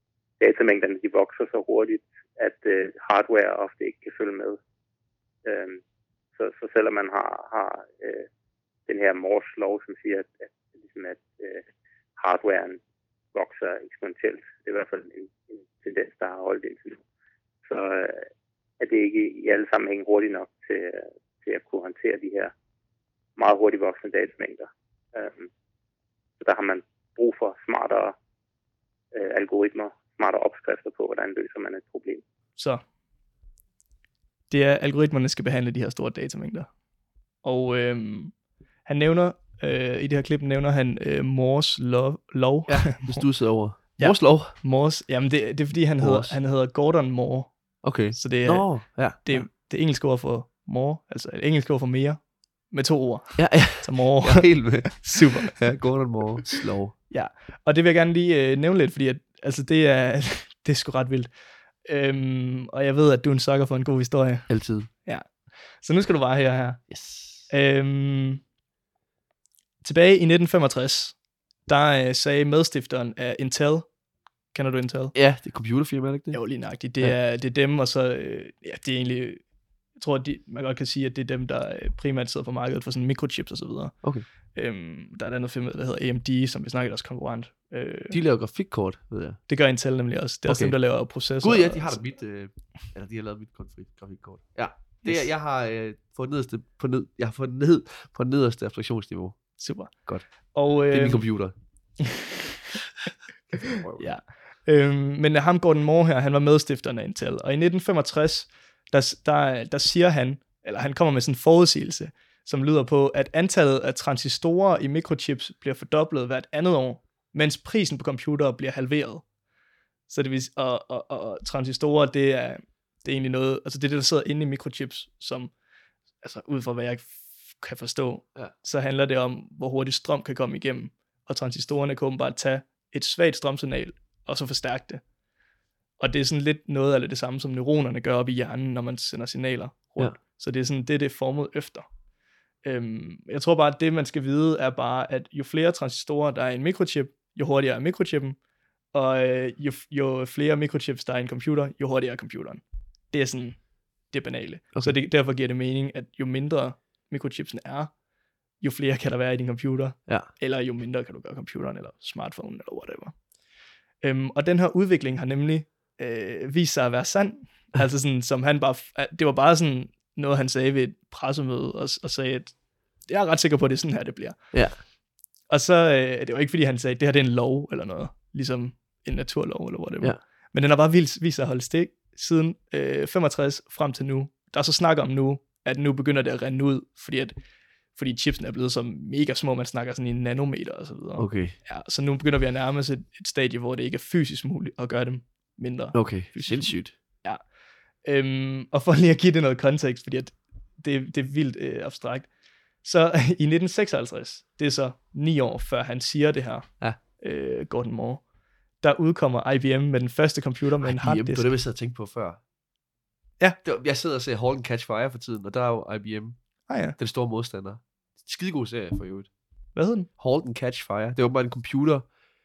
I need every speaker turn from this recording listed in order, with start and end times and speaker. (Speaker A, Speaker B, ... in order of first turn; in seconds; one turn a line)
Speaker A: 0.4-4.6
Speaker A: 5.4-5.8
Speaker A: 6.4-8.3
Speaker A: 8.9-11.7
Speaker A: 12.2-12.8
Speaker A: 13.3-17.0
Speaker A: 17.6-18.3
Speaker A: 18.8-22.5
Speaker A: 23.4-25.5
Speaker A: 26.4-28.2
Speaker A: 29.1-32.2
Speaker B: 32.6-32.8
Speaker B: 34.5-36.7
Speaker B: 37.4-43.2
Speaker C: 42.7-44.5
Speaker B: 44.0-47.6
Speaker C: 46.0-46.4
Speaker C: 47.8-49.5
Speaker B: 48.1-55.6
Speaker C: 53.4-57.0
Speaker B: 57.1-61.3
Speaker B: 61.9-66.9
Speaker C: 64.5-64.9
Speaker C: 66.9-67.5
Speaker B: 67.5-68.4
Speaker B: 69.8-71.2
Speaker B: 71.7-73.9
Speaker B: 74.5-75.2
Speaker C: 75.1-76.5
Speaker B: 76.3-79.4
Speaker B: 80.0-88.2
Speaker C: 88.1-89.4
Speaker B: 89.5-92.0
Speaker C: 90.5-90.8
Speaker C: 91.3-99.5
Speaker B: 99.6-99.9
Speaker B: 100.5-101.2
Speaker C: 100.9-101.5
Speaker B: 102.0-102.6
Speaker C: 103.5-104.1
Speaker B: 104.0-119.3
Speaker B: 120.1-125.5
Speaker B: 126.2-135.0
Speaker B: 136.0-141.9
Speaker B: 142.6-148.4
Speaker B: 148.9-158.0
Speaker B: 158.6-163.2
Speaker B: 164.0-174.6
Speaker C: 174.5-174.8
Speaker B: 175.5-187.3
Speaker B: 187.9-197.4
Speaker C: 191.2-191.6
Speaker C: 195.9-196.9
Speaker B: 198.0-202.3
Speaker B: 202.8-208.2
Speaker B: 208.8-211.5
Speaker C: 210.8-212.4
Speaker C: 213.6-216.4
Speaker B: 216.7-217.0
Speaker C: 217.0-219.3
Speaker B: 219.8-220.1
Speaker C: 220.2-222.1